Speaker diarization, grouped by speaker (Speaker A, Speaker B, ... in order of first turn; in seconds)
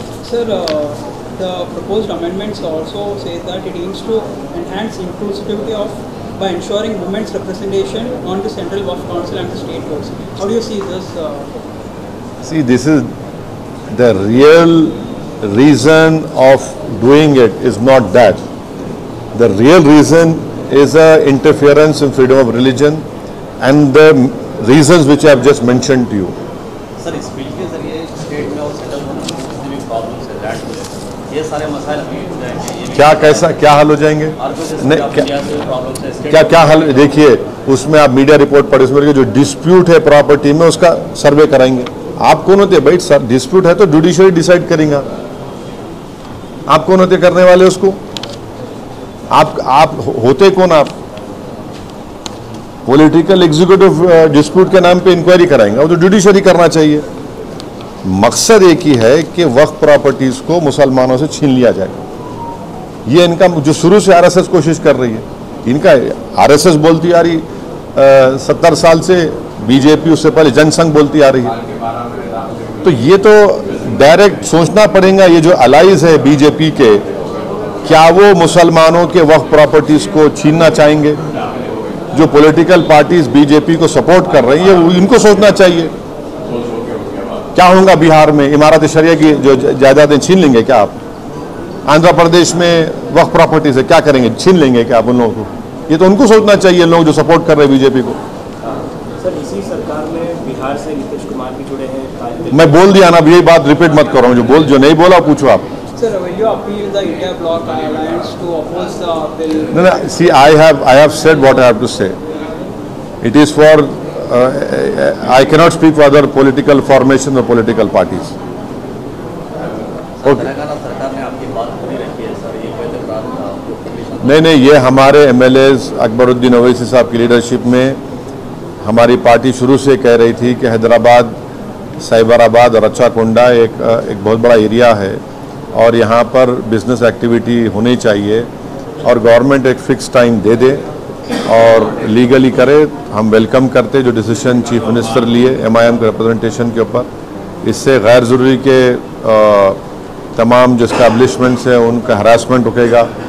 Speaker A: 0.2-11.6, 106.0-109.8
Speaker B: 12.4-13.1, 13.9-18.4, 19.3-23.0, 23.6-26.3, 32.9-35.3, 36.3-45.0, 46.7-48.0, 49.3-50.9, 52.9-57.0, 58.0-62.0, 63.0-71.5, 72.8-77.0, 77.8-81.2, 82.1-85.9, 87.5-91.0, 91.9-98.2, 102.5-105.7, 109.7-112.2, 113.2-118.3, 124.2-128.0, 128.8-131.3, 132.0-135.2, 135.7-138.5, 139.0-140.8, 141.5-147.1, 147.6-149.8, 150.3-153.1
Speaker C: 27.0-33.8, 34.4-37.2, 120.2-124.6
Speaker D: 99.2-102.8